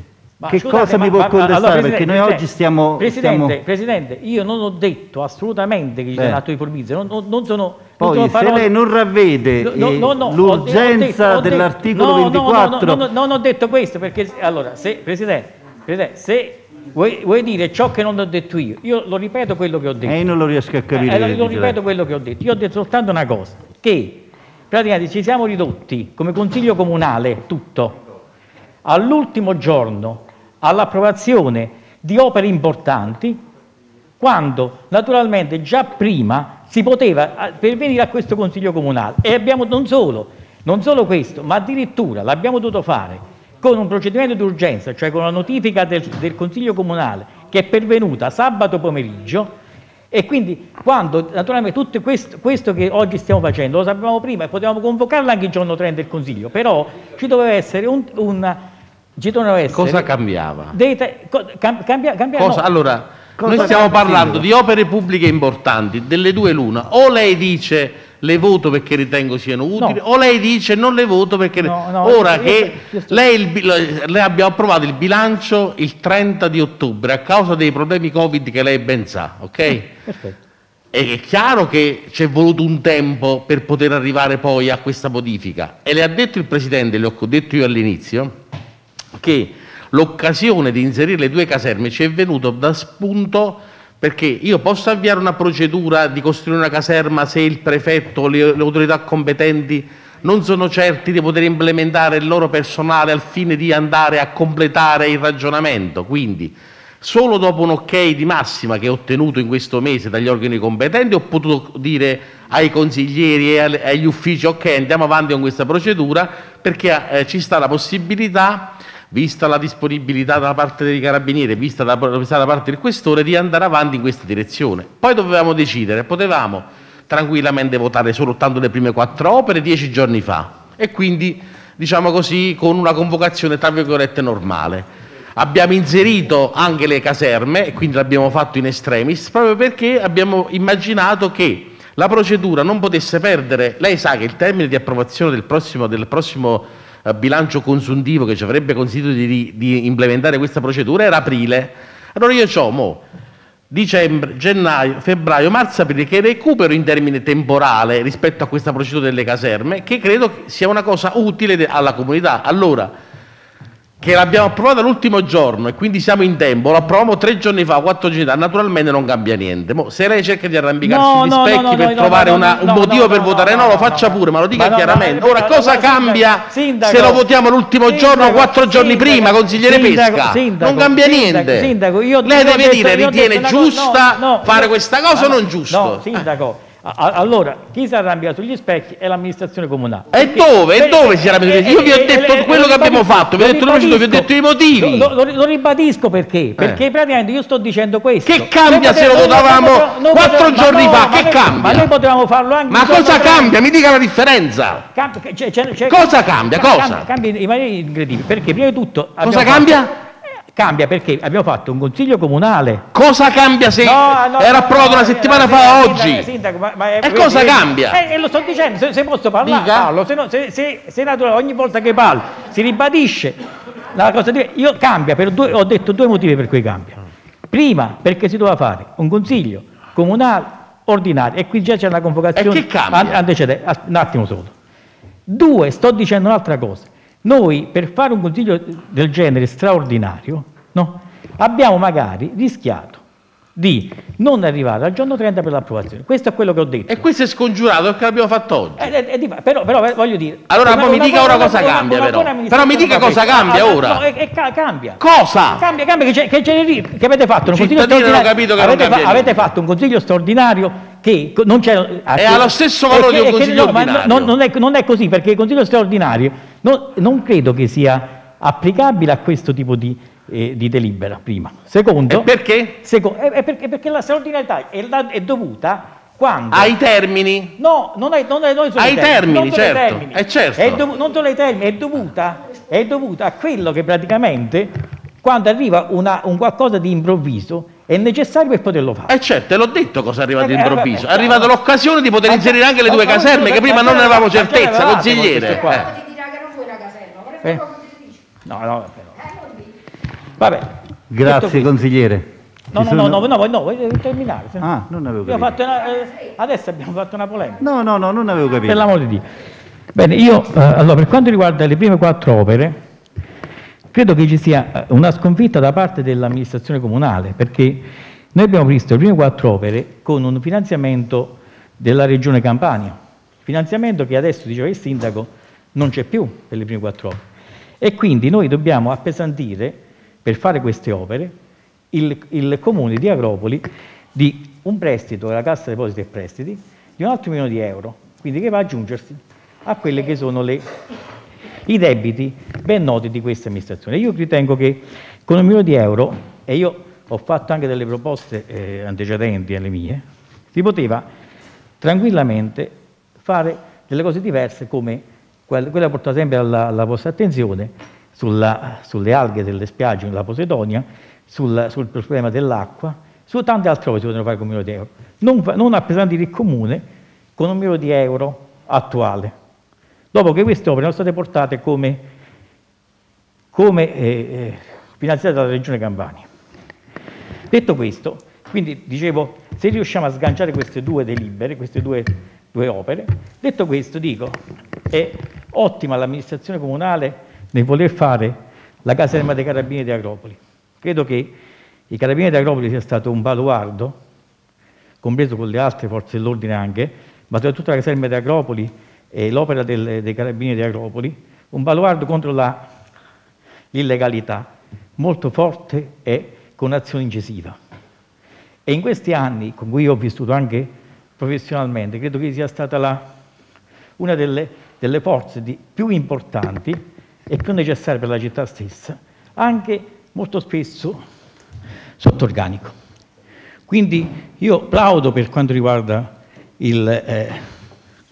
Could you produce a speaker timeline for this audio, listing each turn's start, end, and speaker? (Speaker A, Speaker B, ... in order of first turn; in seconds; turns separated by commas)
Speaker A: 0.4-2.4, Speaker B: 0.5-3.6, Speaker A: 3.0-8.7, Speaker B: 6.2-6.4, Speaker B: 8.0-13.1, Speaker A: 9.6-20.2, Speaker B: 20.1-21.8, Speaker A: 20.9-28.0, Speaker A: 28.8-33.4, Speaker A: 34.2-49.5, Speaker A: 50.1-58.6, Speaker A: 59.2-60.1, Speaker C: 59.7-60.8, Speaker A: 60.7-62.6, Speaker C: 62.4-79.9, Speaker B: 63.4-64.4, Speaker A: 63.5-63.8, Speaker A: 71.6-73.3, Speaker A: 80.1-80.4, Speaker C: 80.9-88.3, Speaker C: 89.2-153.0, Speaker C: 153.7-162.9, Speaker C: 164.0-181.7, Speaker A: 170.8-177.2, Speaker A: 177.8-203.6, Speaker C: 182.2-186.2, Speaker C: 190.1-195.1, Speaker C: 198.2-201.9, Speaker C: 202.7-204.9, Speaker A: 204.9-209.9, Speaker C: 205.9-207.1, Speaker C: 209.2-209.9, Speaker A: 210.5-212.8, Speaker C: 212.9-216.3, Speaker A: 213.8-223.4, Speaker C: 217.0-218.0, Speaker C: 219.4-219.9, Speaker A: 223.9-227.0, Speaker A: 227.5-234.5, Speaker C: 232.3-233.2, Speaker A: 235.3-243.0, Speaker A: 243.6-247.0, Speaker C: 246.9-248.9, Speaker A: 248.8-272.3, Speaker C: 250.5-254.0, Speaker C: 255.0-255.6, Speaker C: 257.5-259.5, Speaker C: 262.1-264.3, Speaker C: 272.1-272.8, Speaker A: 272.8-276.8, Speaker C: 276.5-277.6, Speaker A: 277.6-289.1, Speaker C: 278.8-280.8, Speaker C: 289.1-295.9, Speaker A: 290.4-291.5, Speaker A: 292.2-295.9, Speaker D: 295.8-298.2, Speaker A: 298.4-299.2, Speaker A: 300.4-301.7, Speaker B: 301.1-303.3, Speaker A: 302.7-304.6, Speaker B: 304.6-305.5, Speaker A: 305.2-307.6, Speaker B: 307.6-308.9, Speaker A: 308.6-309.2, Speaker A: 309.9-312.7, Speaker A: 313.9-327.2, Speaker A: 327.8-331.3, Speaker A: 331.9-340.6, Speaker A: 341.6-351.1, Speaker A: 351.8-366.8, Speaker A: 367.4-369.3, Speaker A: 370.1-372.0, Speaker A: 373.5-376.2, Speaker A: 377.5-384.4, Speaker A: 384.9-391.3, Speaker A: 391.9-393.9, Speaker A: 395.0-402.6, Speaker A: 403.7-407.6, Speaker A: 408.6-413.0, Speaker A: 414.0-421.0, Speaker A: 422.0-422.7, Speaker A: 423.7-427.5